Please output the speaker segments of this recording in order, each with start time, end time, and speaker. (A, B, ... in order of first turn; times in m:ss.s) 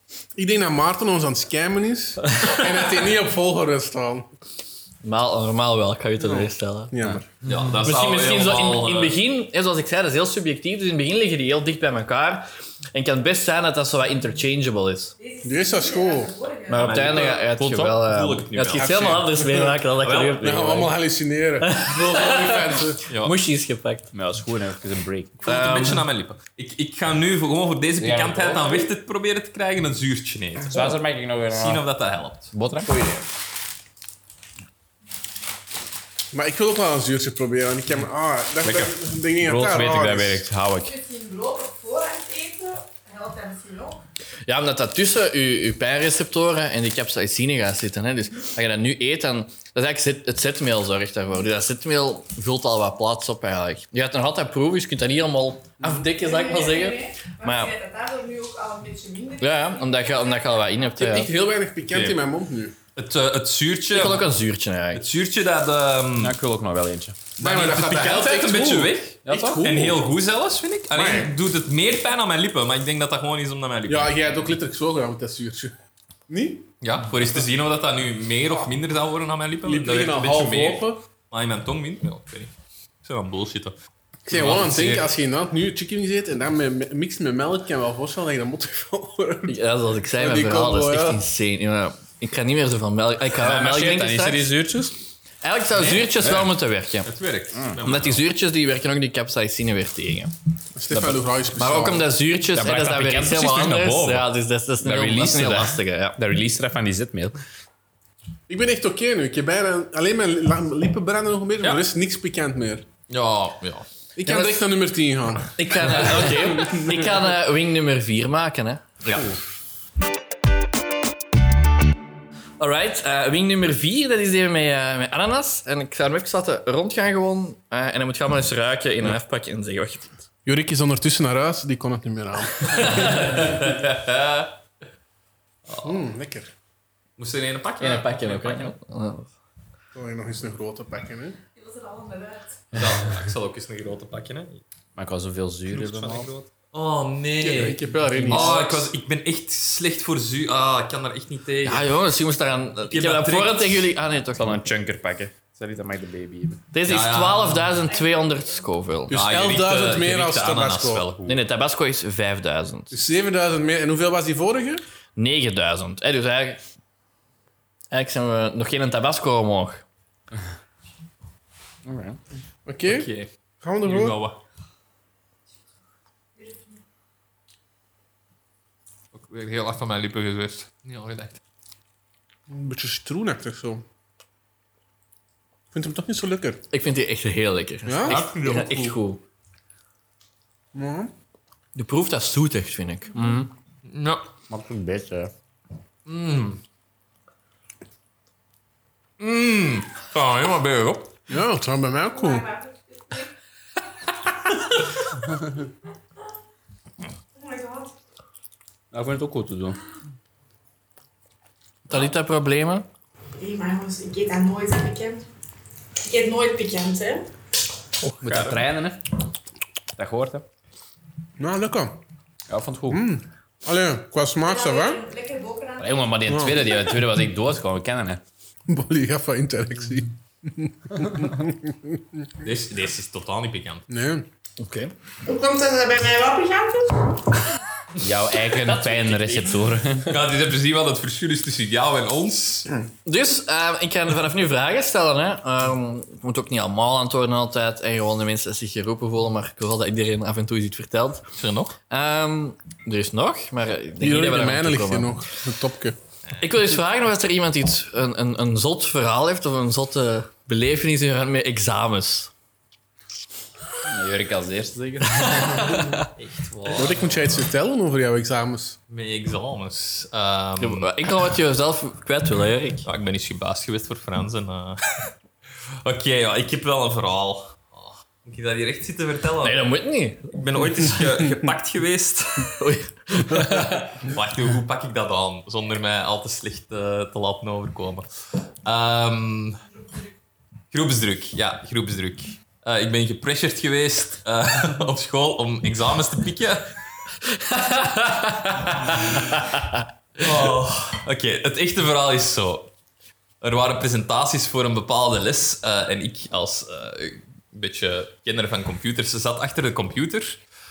0:00.4-0:04.3 A
0:05.0-0:06.9 B
0:06.2-0:07.3 A
0:07.4-0:09.2 C
0:07.8-0:15.2 B
0:15.2-0:17.2 D
0:15.4-0:16.3 A
0:16.7-0:21.0 B
0:16.8-0:19.2 C
0:18.8-0:19.8 A
0:20.0-0:20.4 C
0:20.3-0:23.0 A
0:21.6-0:24.1 B
0:23.1-0:23.3 C
0:24.1-0:25.4 E
0:25.4-0:26.0 B
0:25.4-0:31.0 C
0:28.0-0:28.8 E
0:30.7-0:31.8 E
0:31.5-0:32.5 C
0:32.5-0:33.0 E
0:32.9-0:33.2 B
0:36.3-0:40.4 A
0:39.4-0:41.0 E
0:40.8-0:44.0 D
0:44.5-0:57.8 B
0:56.1-1:00.6 D
0:59.4-1:01.3 B
1:01.0-1:02.7 A
1:01.9-1:02.2 C
1:03.0-1:04.3 C
1:03.9-1:05.0 B
1:04.9-1:06.4 C
1:06.2-1:07.2 E
1:07.4-1:10.0 A
1:07.4-1:14.6 C
1:09.2-1:09.7 E
1:10.9-1:11.3 A
1:13.9-1:15.7 A
1:16.3-1:16.7 A
1:16.8-1:22.5 C
1:19.6-1:21.0 A
1:23.0-1:23.8 C
1:24.3-1:29.6 A
1:24.3-1:25.1 C
1:29.5-1:34.5 B
1:30.1-1:31.2 A
1:33.4-1:35.0 E
1:35.4-1:37.1 B
1:35.8-1:36.3 C
1:37.0-1:38.2 C
1:37.8-1:40.3 B
1:40.8-1:42.1 A
1:40.9-1:41.2 E
1:41.6-1:46.2 B
1:42.5-1:44.3 E
1:44.8-1:47.4 E
1:48.5-1:52.9 A
1:53.1-1:53.9 C
1:54.2-1:56.8 A
1:54.2-1:54.6 B
1:55.6-1:58.8 B
1:59.0-1:59.4 C
2:02.6-2:10.1 B
2:10.5-2:13.5 A
2:12.7-2:14.5 C
2:12.8-2:13.4 B
2:15.7-2:16.0 C
2:15.8-2:16.5 A
2:17.2-2:18.7 C
2:17.8-2:19.3 B
2:19.9-2:21.4 A
2:21.6-2:22.6 D
2:22.7-2:24.6 C
2:25.0-2:26.3 E
2:25.7-2:31.9 C
2:27.4-2:28.9 A
2:31.6-2:34.6 B
2:32.9-2:33.9 C
2:34.4-2:36.6 E
2:36.7-2:39.2 B
2:36.9-2:37.7 C
2:37.9-2:38.4 D
2:39.1-2:41.1 A
2:39.1-2:41.4 C
2:41.3-2:42.9 B
2:42.9-2:44.8 A
2:45.2-2:46.6 B
2:47.9-2:49.8 B
2:51.8-2:52.2 E
2:52.7-2:53.1 A
2:52.9-2:53.3 C
2:53.6-2:54.2 A
2:53.8-2:54.4 C
2:56.4-2:56.7 D
2:59.1-3:01.4 C
3:02.5-3:03.8 A
3:05.7-3:06.6 A
3:06.7-3:09.2 B
3:07.9-3:08.3 A
3:08.1-3:09.0 C
3:10.7-3:11.1 A
3:11.8-3:13.2 B
3:13.2-3:13.5 E
3:13.9-3:14.2 C
3:14.5-3:15.3 E
3:16.1-3:16.6 C
3:19.2-3:21.1 C
3:21.3-3:22.4 A
3:22.1-3:23.3 D
3:27.4-3:27.9 D
3:28.9-3:29.8 E
3:31.9-3:32.9 B
3:33.4-3:35.2 D
3:36.0-3:37.3 D
3:38.0-3:38.6 C
3:38.2-3:39.0 E
3:40.0-3:40.4 E
3:41.4-3:42.0 A
3:42.5-3:43.0 E
3:42.9-3:45.0 A
3:44.4-3:46.0 D
3:45.8-3:48.2 E
3:46.3-3:46.7 A
3:48.7-3:52.0 A
3:52.4-3:53.9 C
3:53.9-3:54.3 A
3:54.6-3:54.9 B
3:55.2-3:57.2 D
3:58.0-4:00.2 E
3:58.9-3:59.4 C
4:00.0-4:02.7 C
4:03.0-4:11.2 B
4:11.4-4:11.7 C
4:11.9-4:15.1 B
4:14.0-4:16.0 A
4:16.4-4:22.3 B
4:23.8-4:25.8 E
4:25.2-4:26.1 B
4:26.2-4:27.5 C
4:26.7-4:28.8 A
4:28.9-4:30.9 C
4:30.6-4:32.9 B
4:32.8-4:35.1 C
4:35.8-4:39.6 C
4:39.4-4:40.3 B
4:40.3-4:42.6 C
4:42.6-4:43.9 B
4:43.5-4:48.1 C
4:48.6-4:49.6 C
4:50.7-4:56.7 C
4:57.4-4:59.8 B
4:58.9-4:59.2 C
5:00.2-5:02.7 C
5:03.4-5:10.4 C